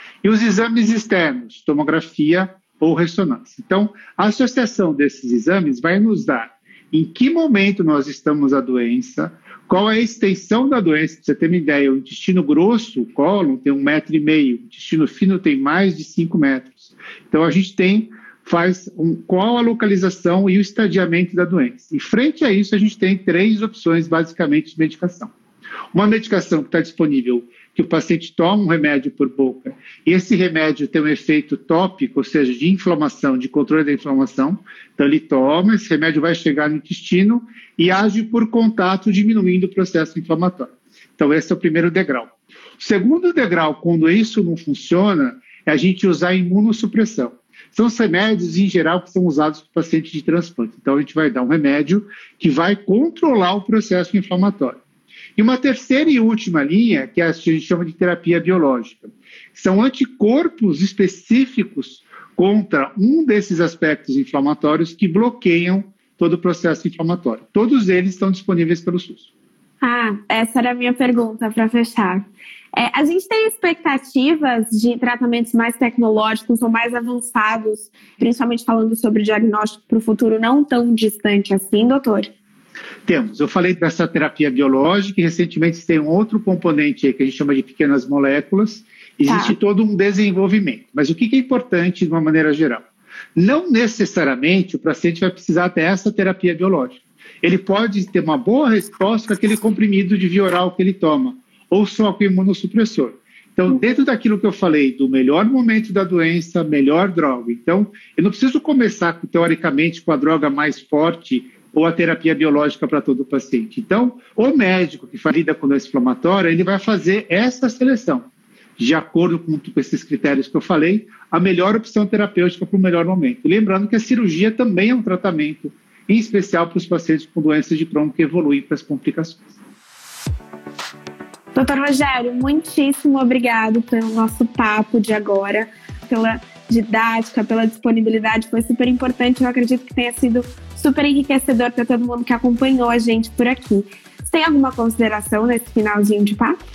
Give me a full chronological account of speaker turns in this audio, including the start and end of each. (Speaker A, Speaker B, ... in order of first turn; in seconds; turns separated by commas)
Speaker A: 0.2-25.3, Speaker A: 25.9-54.8, Speaker A: 55.4-69.3, Speaker B: 69.8-82.3, Speaker A: 83.1-92.8, Speaker B: 89.3-89.5, Speaker A: 93.3-118.3, Speaker A: 118.8-129.5, Speaker B: 131.5-146.6